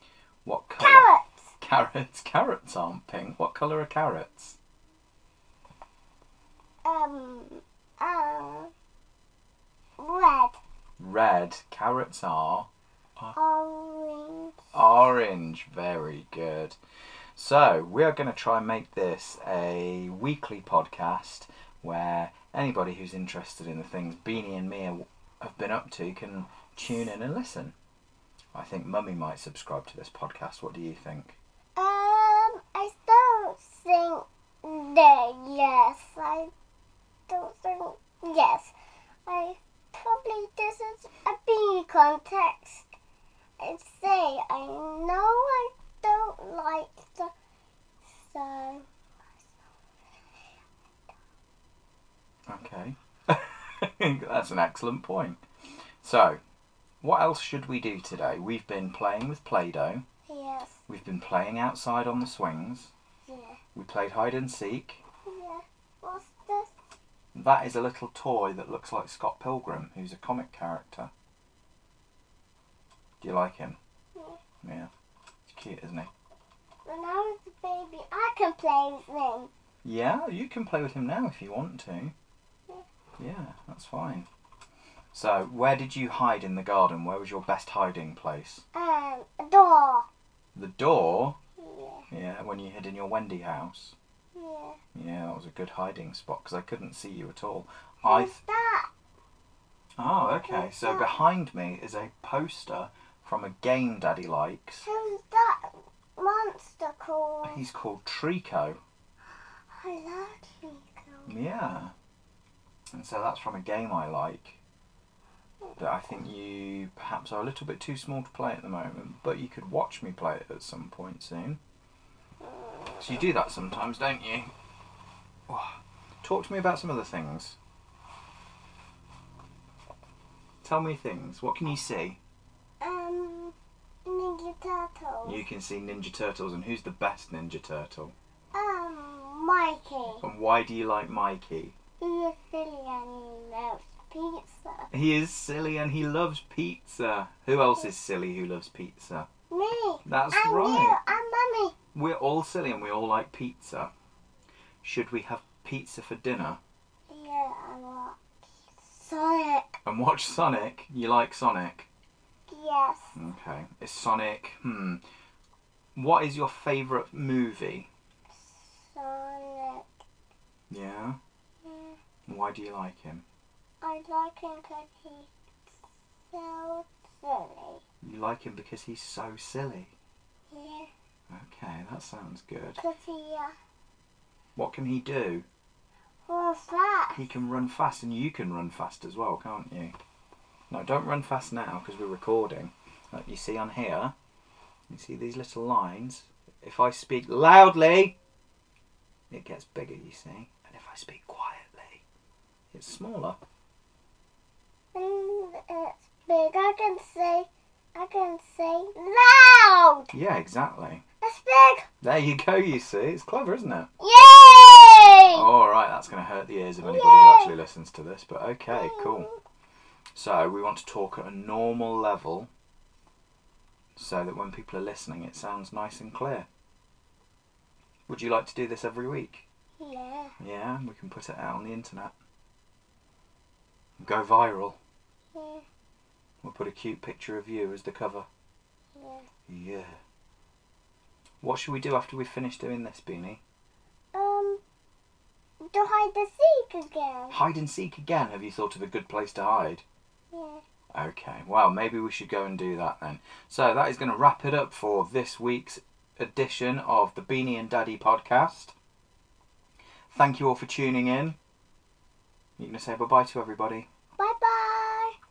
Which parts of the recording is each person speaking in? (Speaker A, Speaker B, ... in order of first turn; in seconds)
Speaker A: 0.4-4.6, 11.0-13.3, 14.7-16.8, 17.3-27.7, 28.5-31.4, 52.5-55.4, 56.0-56.4, 57.0-60.0, 60.9-62.9, 63.7-65.0, 67.3-71.1, 73.2-73.8, 74.6-74.9, 75.5-76.1, 79.8-82.1, 83.2-84.3, 85.1-88.6, 90.5-91.4, 92.1-93.9, 94.9-98.3, 100.0-104.8, 107.4-108.8, 111.3-111.9, 112.9-114.6, 115.8-121.6, 123.0-124.5, 125.5-127.6, 130.6-132.2, 135.2-138.1, 140.2-141.7, 144.9-149.3, 150.0-151.0, 151.9-153.9, 154.8-156.6, 159.8-161.9, 163.1-165.0, 165.9-167.9, 170.7-171.2, 172.3-173.2, 178.0-179.9, 181.3-182.8, 184.6-185.4, 187.1-189.9, 190.7-194.1, 194.9-198.1, 199.3-202.0, 202.7-203.4, 210.1-211.0, 212.0-213.9, 215.3-219.3, 220.1-222.5, 223.9-226.5, 228.1-229.4, 230.4-232.1, 234.0-234.8, 236.4-238.3, 239.5-240.0, 241.4-243.4, 247.3-249.8, 250.9-258.7, 260.1-261.4, 262.6-263.9
Speaker B: 0.8-1.5, 6.8-8.7, 10.0-10.6, 13.3-14.6, 31.8-36.5, 37.3-38.7, 39.2-42.9, 43.6-47.3, 48.2-48.9, 60.3-60.8, 63.2-63.6, 65.2-66.7, 74.1-74.4, 76.8-79.5, 88.7-90.1, 91.6-92.1, 94.3-94.8, 98.0-98.9, 100.3-101.2, 104.8-107.6, 109.7-111.3, 122.4-123.2, 132.8-133.5, 134.0-135.4, 138.5-140.2, 142.0-144.9, 149.5-151.7, 157.1-159.8, 162.5-163.1, 168.4-169.9, 171.6-172.0, 173.8-175.3, 176.3-177.8, 180.5-180.9, 182.8-183.5, 186.3-187.3, 204.9-210.1, 211.2-211.9, 214.0-215.5, 216.8-217.6, 218.7-219.4, 229.8-230.3, 235.3-235.6, 238.9-239.3, 244.1-244.6, 245.6-247.4, 250.3-250.6, 264.2-265.1